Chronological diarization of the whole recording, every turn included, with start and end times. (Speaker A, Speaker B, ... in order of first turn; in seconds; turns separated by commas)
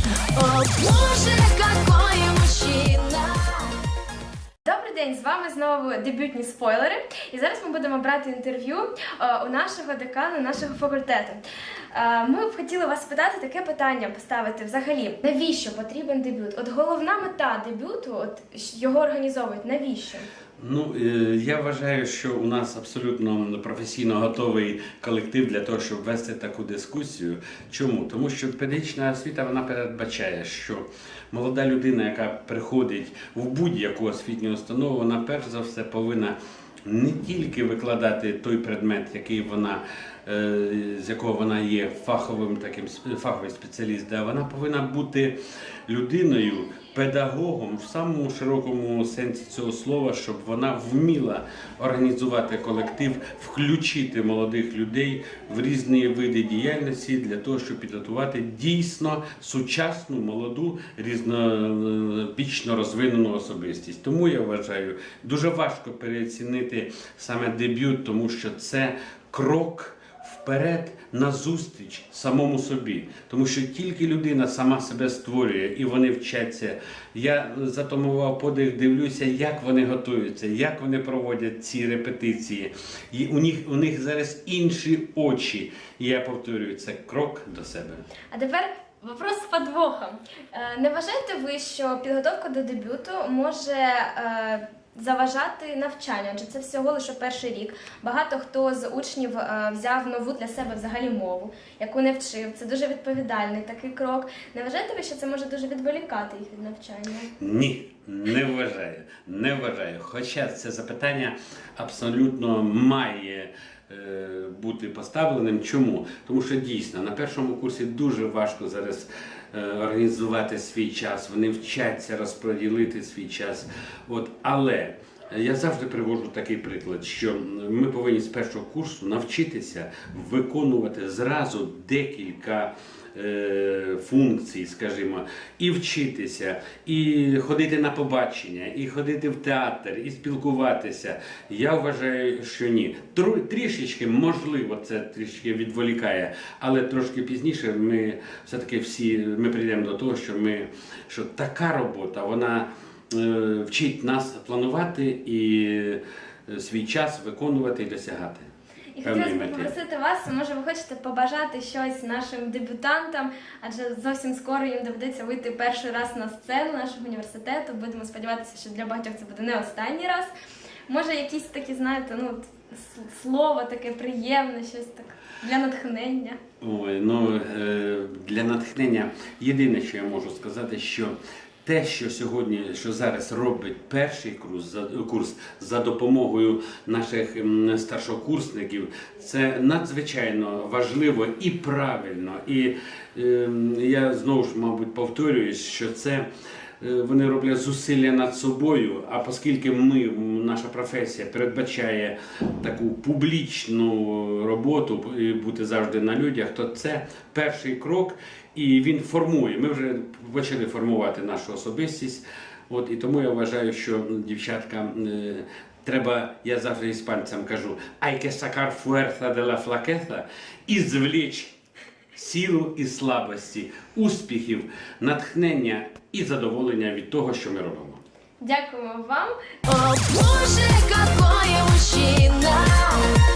Speaker A: 0.3-3.8, Speaker B: 4.7-11.4, Speaker B: 11.9-20.3, Speaker C: 20.6-45.4, Speaker C: 45.9-88.0, Speaker B: 88.3-107.3, Speaker C: 107.4-158.5, Speaker B: 158.9-170.3, Speaker C: 159.0-159.7, Speaker B: 170.9-176.4, Speaker C: 176.6-196.3, Speaker C: 196.8-221.6, Speaker C: 222.2-228.0, Speaker B: 228.4-229.3, Speaker A: 229.7-233.1